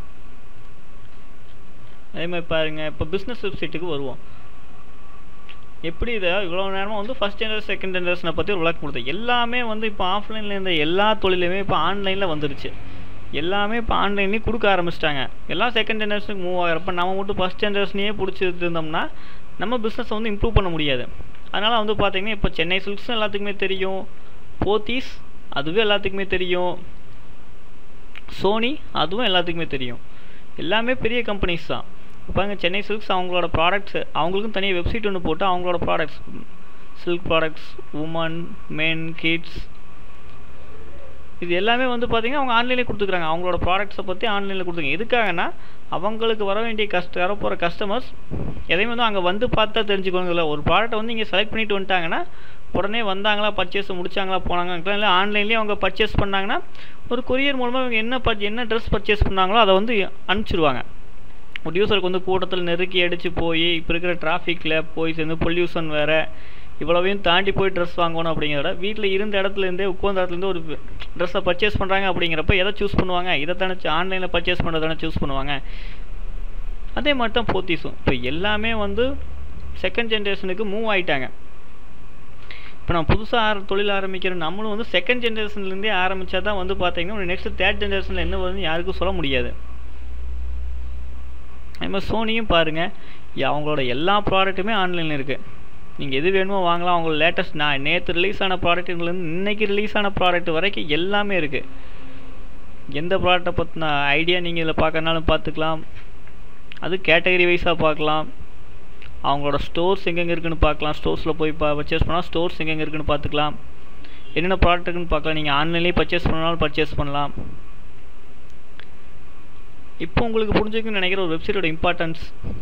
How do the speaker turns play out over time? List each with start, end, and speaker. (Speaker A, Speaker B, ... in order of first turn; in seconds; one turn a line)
Speaker A: 2.2-4.2
Speaker A: 5.9-12.7
Speaker A: 13.4-19.1
Speaker A: 19.6-24.0
Speaker A: 24.6-26.8
Speaker A: 28.3-30.0
Speaker A: 30.6-36.4
Speaker A: 37.0-39.7
Speaker A: 41.4-60.8
Speaker A: 61.7-66.2
Speaker A: 66.8-75.6
Speaker A: 77.0-79.1
Speaker A: 79.8-81.3
Speaker A: 82.9-89.5
Speaker A: 91.8-92.9
Speaker A: 93.4-95.4
Speaker A: 96.0-101.6
Speaker A: 102.9-105.8
Speaker A: 106.8-108.2
Speaker A: 109.2-113.5
Speaker A: 114.4-117.3
Speaker A: 120.0-122.3